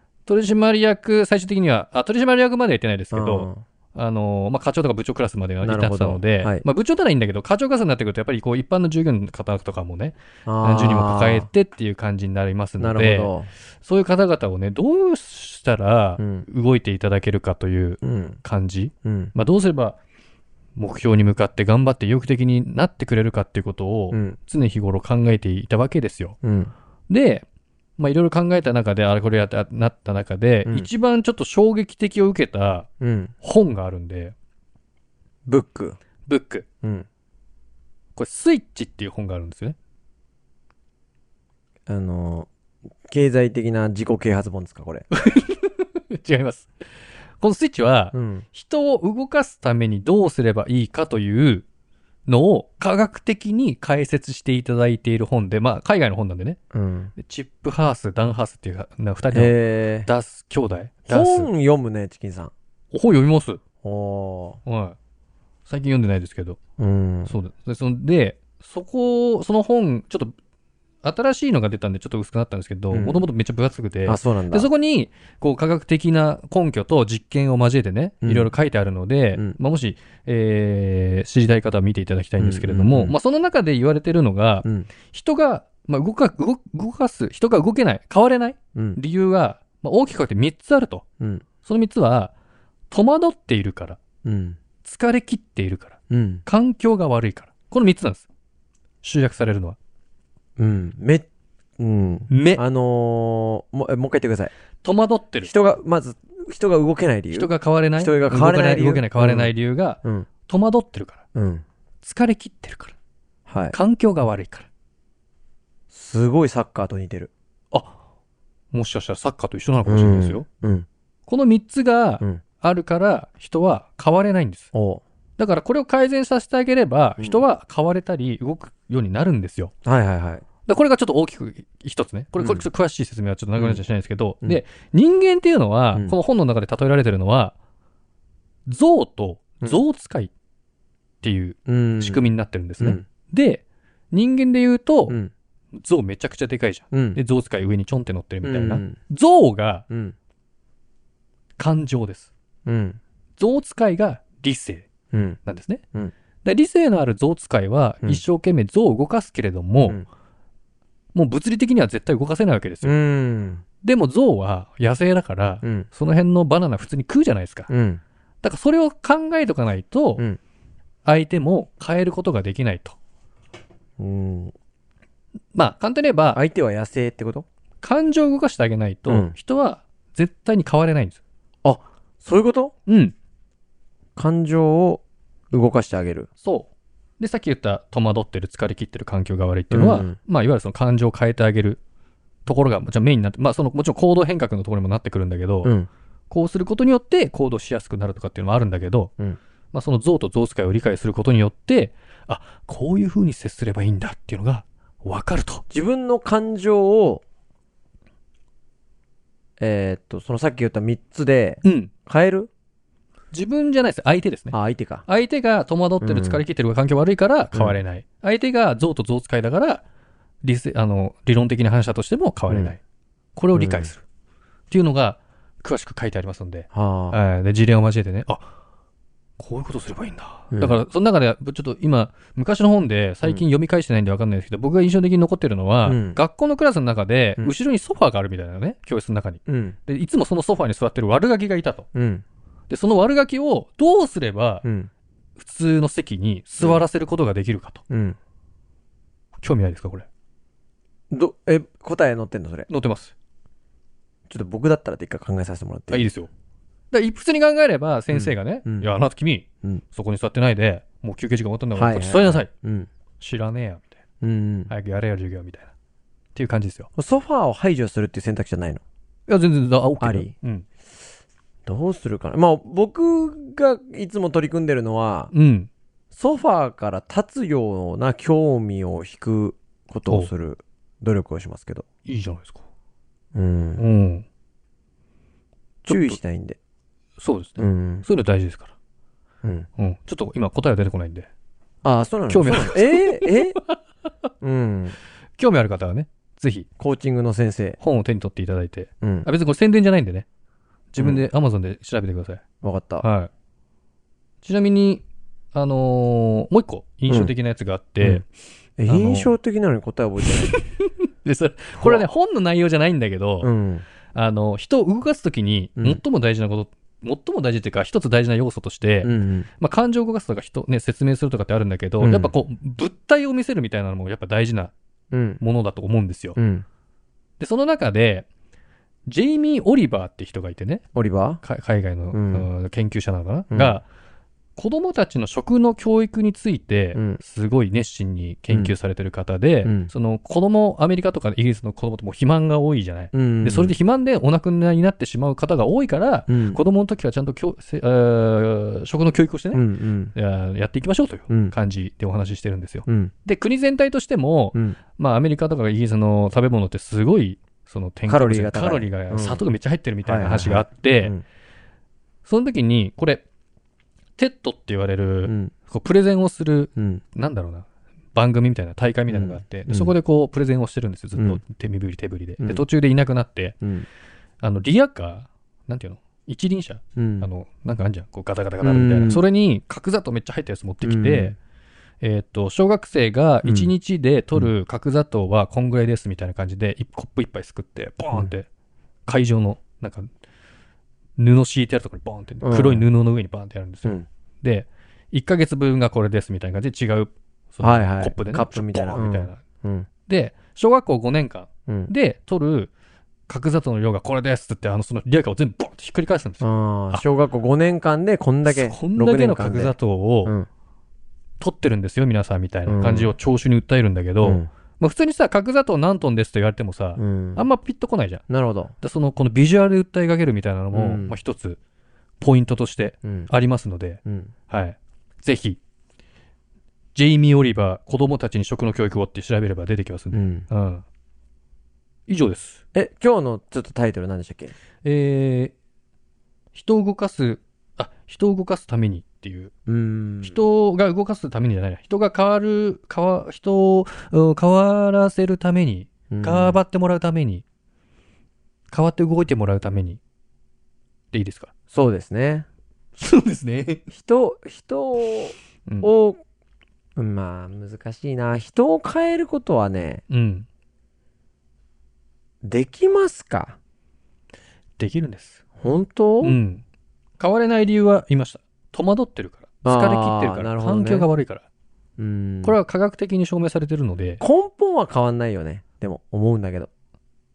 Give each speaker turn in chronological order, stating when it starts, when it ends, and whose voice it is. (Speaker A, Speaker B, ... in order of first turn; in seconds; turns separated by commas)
Speaker A: 0.3-20.0, Speaker B: 3.1-3.6, Speaker B: 5.6-6.7, Speaker B: 10.5-11.5, Speaker B: 12.8-13.5, Speaker B: 16.2-16.5, Speaker B: 18.0-18.4, Speaker B: 19.1-19.3, Speaker A: 20.8-26.4, Speaker B: 24.1-24.4, Speaker B: 26.4-26.7, Speaker A: 27.1-27.4, Speaker A: 28.0-32.9, Speaker B: 33.0-33.3, Speaker A: 33.4-34.3, Speaker B: 35.5-36.0, Speaker A: 36.3-36.6, Speaker A: 38.2-39.8, Speaker B: 41.9-42.5, Speaker B: 43.1-45.1, Speaker A: 45.1-46.7, Speaker A: 47.4-51.6, Speaker B: 48.1-48.5, Speaker A: 52.3-56.6, Speaker B: 56.7-57.1, Speaker A: 57.2-61.5, Speaker B: 59.3-60.1, Speaker B: 61.1-62.5, Speaker A: 62.9-63.6, Speaker B: 63.8-64.6, Speaker A: 64.7-65.0, Speaker A: 65.7-66.6, Speaker B: 66.8-67.3, Speaker A: 67.3-70.3, Speaker A: 71.0-91.0, Speaker B: 72.9-73.2, Speaker B: 74.0-74.7, Speaker B: 78.2-78.5, Speaker B: 82.4-83.2, Speaker B: 84.6-84.9, Speaker A: 91.6-92.3, Speaker A: 92.9-94.0, Speaker B: 94.2-94.6, Speaker A: 94.8-98.3, Speaker B: 96.1-96.4, Speaker A: 99.0-99.8, Speaker B: 100.6-101.3, Speaker B: 101.8-104.5, Speaker A: 102.3-102.6, Speaker A: 104.8-105.5, Speaker B: 105.4-109.5, Speaker A: 107.3-111.2, Speaker B: 110.0-110.3, Speaker B: 111.3-111.6, Speaker A: 112.0-113.0, Speaker B: 113.5-113.8, Speaker A: 113.7-114.7, Speaker B: 115.9-117.3, Speaker A: 118.7-120.5, Speaker B: 119.9-120.9, Speaker A: 121.3-124.7, Speaker B: 124.7-125.0, Speaker A: 125.4-129.7, Speaker B: 129.8-130.4, Speaker A: 130.7-137.6, Speaker B: 132.4-132.7, Speaker B: 133.6-133.8, Speaker A: 138.7-140.3, Speaker A: 141.2-145.2, Speaker B: 141.7-142.3, Speaker A: 145.7-149.8, Speaker B: 146.9-147.2, Speaker B: 148.4-149.0, Speaker B: 149.9-150.2, Speaker A: 151.6-152.3, Speaker B: 152.7-153.0, Speaker A: 153.4-154.9, Speaker B: 155.1-155.4, Speaker A: 155.4-155.8, Speaker A: 156.4-160.0, Speaker A: 161.1-162.9, Speaker B: 162.8-163.6, Speaker A: 163.8-167.7, Speaker B: 165.6-165.9, Speaker B: 167.7-168.0, Speaker A: 168.4-170.2, Speaker A: 171.1-173.0, Speaker B: 174.0-174.5, Speaker A: 175.5-176.4, Speaker B: 176.3-177.4, Speaker A: 177.8-181.2, Speaker B: 179.1-179.3, Speaker B: 181.6-182.7, Speaker A: 182.9-183.2, Speaker B: 184.2-186.3, Speaker A: 186.4-191.8, Speaker B: 189.7-190.2, Speaker A: 192.5-195.7, Speaker B: 195.6-195.9, Speaker A: 196.3-199.1, Speaker A: 199.7-205.6, Speaker B: 205.7-207.2, Speaker B: 209.6-212.5, Speaker A: 211.6-211.9, Speaker A: 213.3-214.6, Speaker B: 214.5-215.1, Speaker A: 215.1-219.8, Speaker B: 216.0-216.4, Speaker A: 220.4-222.8, Speaker B: 222.5-222.8, Speaker A: 223.4-224.0, Speaker B: 223.5-223.9, Speaker A: 224.7-228.5, Speaker B: 226.7-227.2, Speaker A: 229.4-241.9, Speaker B: 235.8-236.2, Speaker B: 239.5-239.8, Speaker B: 241.9-242.2, Speaker A: 242.7-244.7, Speaker B: 244.6-244.9, Speaker A: 245.4-247.8, Speaker B: 247.9-248.2, Speaker A: 249.4-250.1, Speaker B: 251.1-252.7, Speaker A: 252.7-253.1, Speaker B: 254.3-256.1, Speaker A: 255.9-256.3, Speaker A: 256.9-262.5, Speaker B: 258.1-258.9, Speaker B: 261.8-262.9, Speaker A: 263.2-264.0, Speaker B: 264.2-264.7, Speaker A: 264.7-265.7, Speaker A: 266.4-266.9, Speaker B: 267.0-268.8, Speaker A: 269.3-270.7, Speaker B: 270.0-270.3, Speaker B: 271.7-275.3, Speaker A: 275.3-275.7, Speaker B: 276.1-281.9, Speaker A: 282.1-282.6, Speaker B: 283.3-283.8, Speaker A: 283.8-284.2, Speaker A: 285.8-286.2, Speaker B: 285.9-286.6, Speaker A: 287.2-288.7, Speaker B: 287.6-288.1, Speaker A: 289.8-291.3, Speaker B: 291.8-293.6, Speaker A: 292.3-293.8, Speaker B: 294.4-295.0, Speaker A: 295.4-296.7, Speaker B: 296.8-297.8, Speaker A: 297.8-300.3, Speaker B: 299.0-299.3, Speaker A: 300.9-302.4, Speaker B: 301.0-301.2, Speaker B: 302.6-303.1, Speaker A: 303.0-303.3, Speaker A: 304.4-305.0, Speaker A: 305.5-308.3, Speaker B: 308.8-310.6, Speaker A: 308.9-309.4, Speaker A: 310.5-313.5, Speaker B: 311.8-312.1, Speaker B: 313.4-313.9, Speaker A: 314.1-324.7, Speaker B: 315.8-316.0, Speaker B: 319.0-319.5, Speaker B: 322.0-322.3, Speaker B: 325.1-325.4, Speaker A: 325.4-326.4, Speaker B: 326.4-326.6, Speaker A: 327.4-328.3, Speaker A: 329.1-330.8, Speaker B: 330.9-331.4, Speaker A: 331.4-333.9, Speaker B: 332.1-332.5, Speaker B: 333.5-333.8, Speaker A: 334.6-349.6, Speaker B: 336.9-337.2, Speaker B: 339.6-339.9, Speaker B: 343.1-343.8, Speaker B: 346.3-346.6, Speaker B: 349.5-350.1, Speaker A: 350.1-361.1, Speaker B: 351.3-351.5, Speaker B: 352.9-353.1, Speaker B: 358.1-359.4, Speaker B: 360.1-361.2, Speaker A: 362.2-363.2, Speaker A: 364.2-373.6, Speaker B: 365.3-365.5, Speaker B: 366.8-367.0, Speaker B: 369.1-369.9, Speaker B: 371.2-371.4, Speaker B: 373.6-373.9, Speaker A: 374.4-381.4, Speaker B: 377.0-377.3, Speaker B: 378.6-379.2, Speaker B: 380.8-381.4, Speaker A: 382.0-388.5, Speaker B: 383.4-383.7, Speaker A: 389.1-390.1, Speaker A: 391.2-399.4, Speaker B: 392.4-392.9, Speaker B: 397.6-399.9, Speaker A: 400.1-402.7, Speaker A: 403.3-407.1, Speaker B: 406.4-410.5, Speaker A: 408.4-410.4, Speaker A: 411.4-418.2, Speaker B: 412.7-413.1, Speaker B: 414.2-414.5, Speaker B: 417.0-417.4, Speaker B: 418.3-418.7, Speaker A: 418.8-421.6, Speaker B: 420.7-421.1, Speaker A: 422.2-425.6, Speaker B: 423.0-423.3, Speaker B: 424.1-424.3, Speaker A: 426.9-430.8, Speaker B: 430.1-430.5, Speaker A: 432.1-432.6, Speaker B: 432.7-434.5, Speaker A: 434.8-435.5, Speaker A: 436.5-439.5, Speaker B: 439.7-440.4, Speaker A: 440.2-447.4, Speaker B: 446.1-446.6, Speaker A: 448.7-450.0, Speaker A: 451.1-451.5, Speaker B: 451.7-452.5, Speaker A: 453.0-453.9, Speaker B: 453.9-456.2, Speaker B: 457.0-460.0, Speaker A: 460.1-460.5, Speaker B: 462.4-463.6, Speaker A: 464.8-465.4, Speaker B: 465.6-466.4, Speaker A: 466.2-466.6, Speaker A: 467.2-471.4, Speaker B: 469.6-471.1, Speaker B: 472.0-472.6, Speaker A: 472.4-474.2, Speaker B: 474.2-476.7